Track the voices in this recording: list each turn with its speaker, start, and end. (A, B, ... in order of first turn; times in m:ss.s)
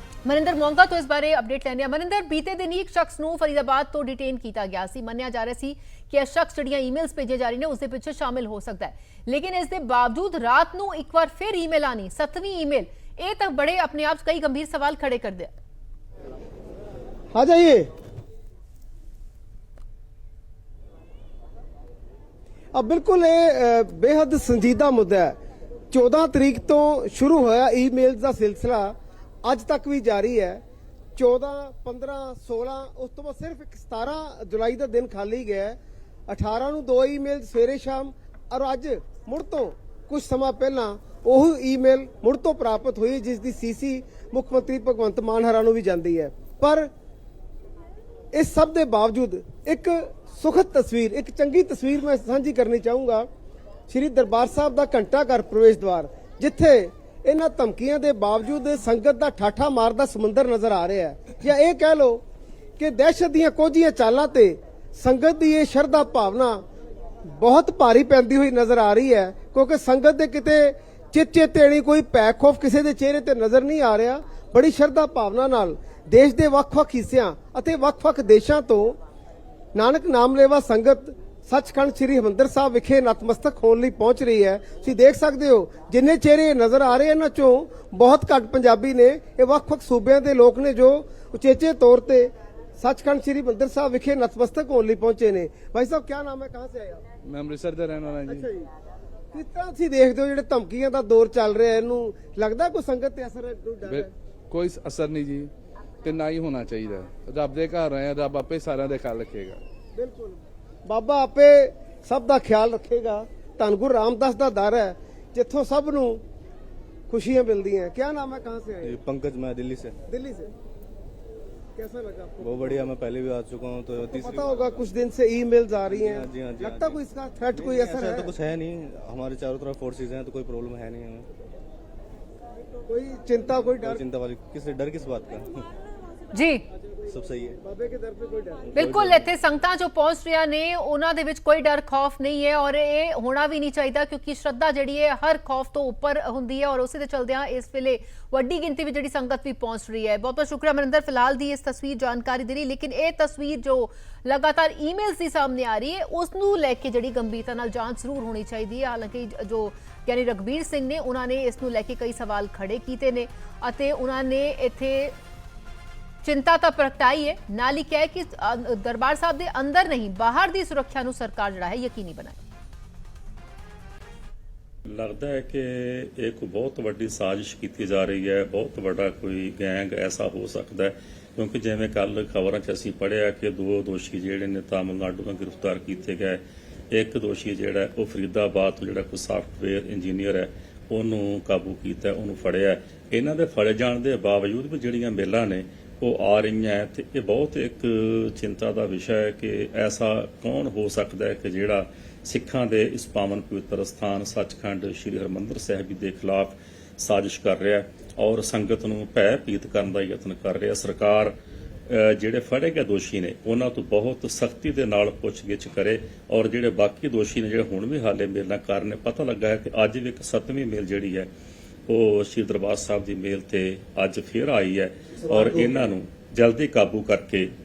0:00.2-0:15.5 A
0:17.3-0:17.9 B
0:22.7-0:25.4 B
0:25.9-0:30.6 B
0:31.2-0:46.9 B
0:48.3-0:53.3 B
0:53.9-1:02.2 B
1:02.8-1:06.6 B
1:07.2-1:19.0 B
1:19.7-1:37.0 B
1:37.3-1:38.5 C
1:38.3-1:38.7 B
1:39.3-1:44.1 B
1:43.9-1:45.5 C
1:46.0-1:49.6 C
1:50.0-1:56.2 B
1:57.1-1:59.0 B
1:58.8-2:00.0 D
2:00.1-2:00.5 B
2:01.8-2:02.8 B
2:02.4-2:04.8 D
2:04.1-2:08.3 B
2:05.9-2:07.0 D
2:07.5-2:11.3 D
2:12.9-2:14.0 B
2:13.8-2:15.7 D
2:16.3-2:16.6 A
2:17.1-2:17.6 D
2:17.6-2:18.8 B
2:18.8-2:45.2 A
2:18.8-2:19.2 D
2:46.2-2:52.4 A
2:54.9-3:31.4 E
3:31.9-3:41.3 E
3:41.9-3:47.5 E